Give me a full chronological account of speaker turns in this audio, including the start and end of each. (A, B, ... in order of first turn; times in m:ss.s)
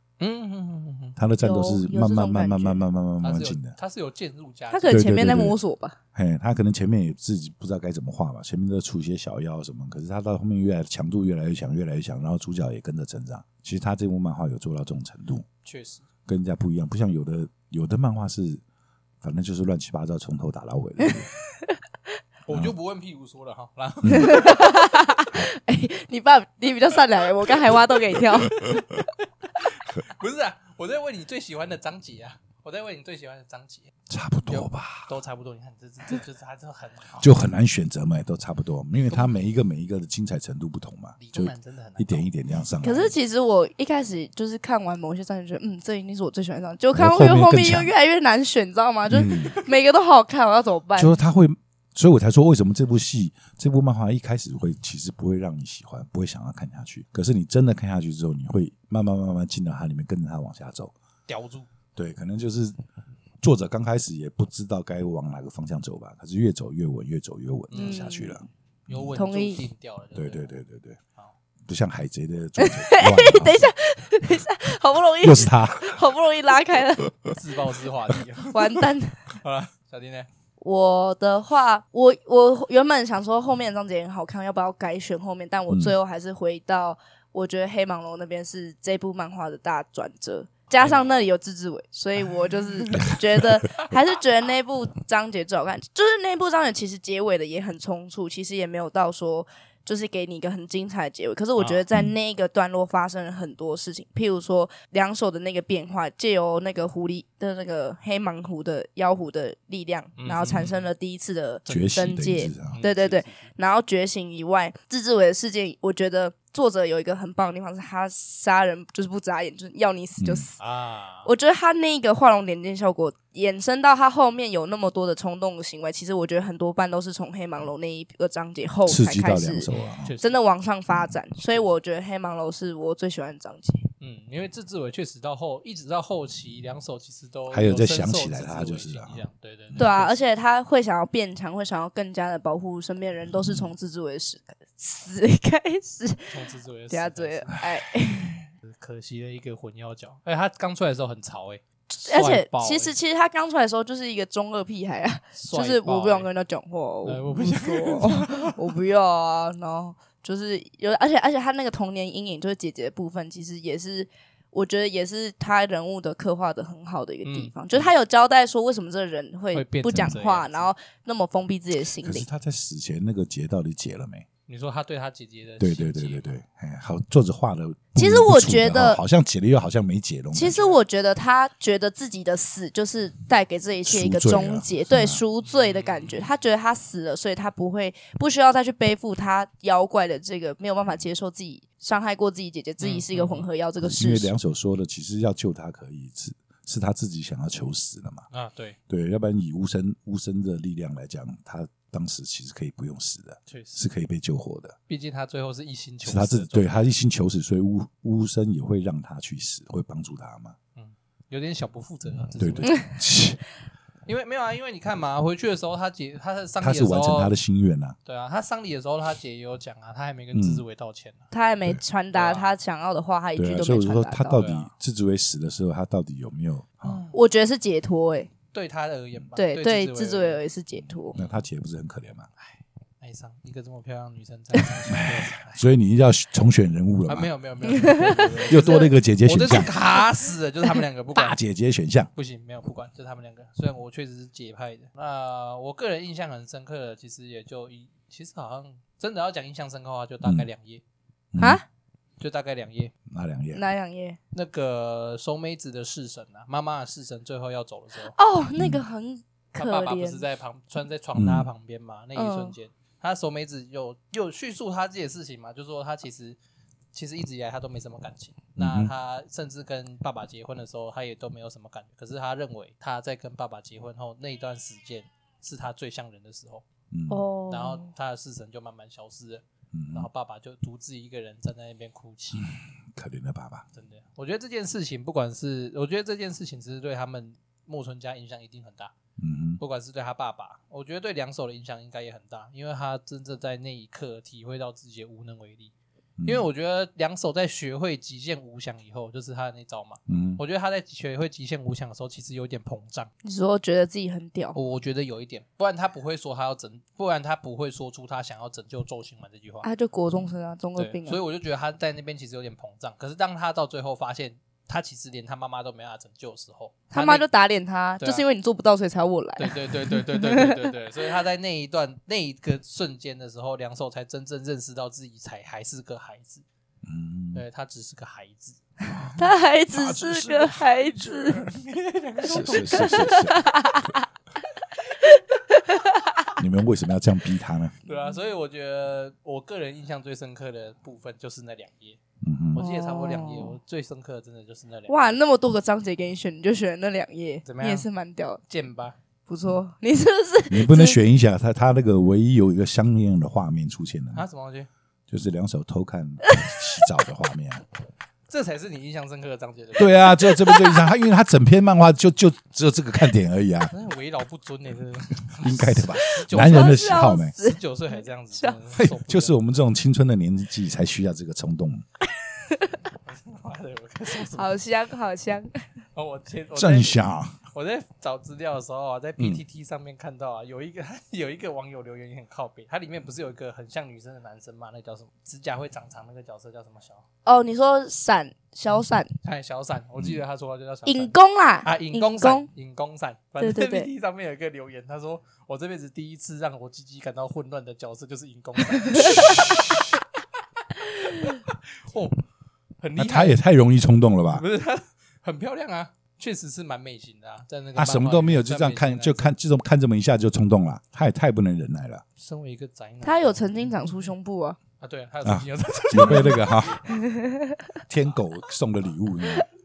0:00.2-0:01.2 A
0:01.2-0:03.8 B
0:01.4-0:02.9 C
0:03.2-0:05.0 A
0:04.7-0:06.0 C
0:04.9-0:05.6 B
0:06.2-0:15.5 B
0:15.6-0:16.0 A
0:16.3-0:18.6 B
0:19.2-0:21.3 B
0:22.5-0:24.8 A
0:24.0-0:24.4 B
0:24.1-0:29.0 C
0:28.6-0:28.9 A
0:29.6-0:33.9 A
0:34.1-0:35.1 B
0:34.5-0:37.3 A
0:37.2-0:43.1 B
0:41.2-0:42.3 A
0:42.8-0:51.2 C
0:46.9-0:47.9 B
0:49.1-0:49.6 B
0:51.0-1:00.9 B
1:01.3-1:01.7 A
1:02.0-1:02.8 B
1:03.4-1:09.2 B
1:07.7-1:08.2 A
1:07.7-1:08.4 C
1:08.9-1:10.6 A
1:09.2-1:09.6 C
1:10.2-1:11.0 B
1:11.7-1:13.7 B
1:12.6-1:17.1 C
1:15.2-1:16.0 B
1:17.3-1:18.7 A
1:18.5-1:19.3 C
1:19.4-1:20.3 A
1:20.6-2:00.6 C
1:25.7-1:26.0 B
1:30.8-1:31.3 A
1:41.6-1:41.8 A
1:50.2-1:50.9 A
1:51.7-1:52.0 A
1:51.7-1:52.8 B
1:52.7-1:53.5 A
2:00.2-2:00.5 B
2:00.6-2:01.3 A
2:01.2-2:09.7 C
2:08.9-2:10.1 B
2:09.7-2:10.4 A
2:10.2-2:13.9 C
2:14.0-2:20.2 A
2:17.5-2:19.9 B
2:19.8-2:26.4 C
2:26.3-2:27.6 A
2:26.9-2:28.4 C
2:28.6-2:32.9 A
2:31.9-2:52.3 C
2:35.4-2:36.3 A
2:37.0-2:38.7 A
2:47.2-2:47.9 A
2:49.5-2:50.7 A
2:52.0-2:54.3 B
2:54.5-2:56.4 A
2:55.6-3:00.7 B
2:58.0-2:59.0 C
3:00.3-3:14.3 C
3:03.9-3:05.2 B
3:05.4-3:06.3 A
3:12.8-3:13.5 A
3:13.8-3:18.3 B
3:18.3-3:18.8 A
3:18.9-3:24.8 B
3:23.5-3:23.9 A
3:24.9-3:26.9 A
3:26.0-3:30.6 B
3:30.8-3:32.8 A
3:32.4-3:33.4 B
3:34.1-3:37.3 A
3:36.6-3:38.0 B
3:38.0-3:41.2 A
3:40.3-3:40.6 B
3:41.3-3:44.4 C
3:42.1-3:42.5 A
3:43.4-3:47.0 B
3:44.4-3:44.7 A
3:46.8-3:47.2 A
3:47.1-3:48.3 C
3:48.5-3:50.4 A
3:49.4-3:51.2 C
3:51.1-3:52.3 B
3:51.1-3:51.4 A
3:52.4-3:55.7 A
3:54.9-3:57.3 B
3:57.1-4:01.4 A
3:57.7-3:58.9 C
3:58.0-3:59.7 B
4:01.2-4:02.1 B
4:02.2-4:10.8 A
4:11.3-4:11.6 B
4:11.4-4:11.6 C
4:12.2-4:12.9 A
4:13.1-4:13.6 B
4:13.5-4:14.2 C
4:14.3-4:18.2 A
4:18.1-4:20.2 C
4:18.6-4:18.8 B
4:19.6-4:26.4 A
4:21.2-4:21.5 B
4:22.2-4:22.6 C
4:26.9-4:36.6 A
4:28.6-4:28.9 B
4:36.9-4:37.2 B
4:37.1-4:37.9 C
4:37.5-4:42.5 A
4:39.7-4:40.1 B
4:42.3-4:43.6 B
4:43.8-4:48.9 A
4:49.2-4:49.6 B
4:49.6-4:55.7 A
4:56.2-4:56.5 B
4:56.2-5:03.1 A
5:00.1-5:00.4 B
5:03.2-5:04.6 C
5:04.5-5:09.7 A
5:09.6-5:11.2 C
5:10.8-5:17.3 A
5:16.9-5:20.7 C
5:18.0-5:18.2 A
5:19.4-5:26.4 A
5:26.8-5:27.4 B
5:27.3-5:28.6 A
5:28.9-5:31.4 B
5:29.2-5:31.4 C
5:31.4-5:33.3 A
5:32.2-5:33.4 B
5:32.5-5:34.0 C
5:35.0-5:36.2 C
5:36.4-5:37.7 B
5:37.9-5:42.0 A
5:42.2-5:42.6 B
5:42.5-5:45.2 A
5:42.6-5:43.6 C
5:44.9-5:48.4 C
5:47.4-5:47.9 A
5:48.5-5:49.0 A
5:49.3-5:51.0 C
5:50.5-5:54.3 B
5:54.1-5:54.7 A
5:55.1-5:57.6 B
5:56.3-5:56.6 C
5:58.3-6:00.3 A
5:59.8-6:03.7 B
6:00.5-6:00.9 C
6:03.7-6:09.4 A
6:05.4-6:07.3 B
6:06.2-6:08.6 C
6:08.8-6:11.8 B
6:12.4-6:12.7 C
6:13.0-6:14.5 A
6:14.3-6:15.6 C
6:16.0-6:17.0 A
6:16.6-6:17.4 B
6:17.5-6:27.0 A
6:27.2-6:29.1 C
6:29.2-6:39.8 A
6:30.9-6:32.5 C
6:33.4-6:33.9 C
6:38.9-6:39.5 C
6:40.8-6:42.2 A
6:42.8-6:43.4 A
6:43.0-6:44.4 B
6:44.3-6:49.3 A
6:47.8-6:52.0 B
6:52.2-6:53.7 A
6:53.0-6:54.6 C
6:54.8-6:56.6 A
6:55.2-6:56.8 B
6:56.9-6:57.6 C
6:57.9-6:59.5 B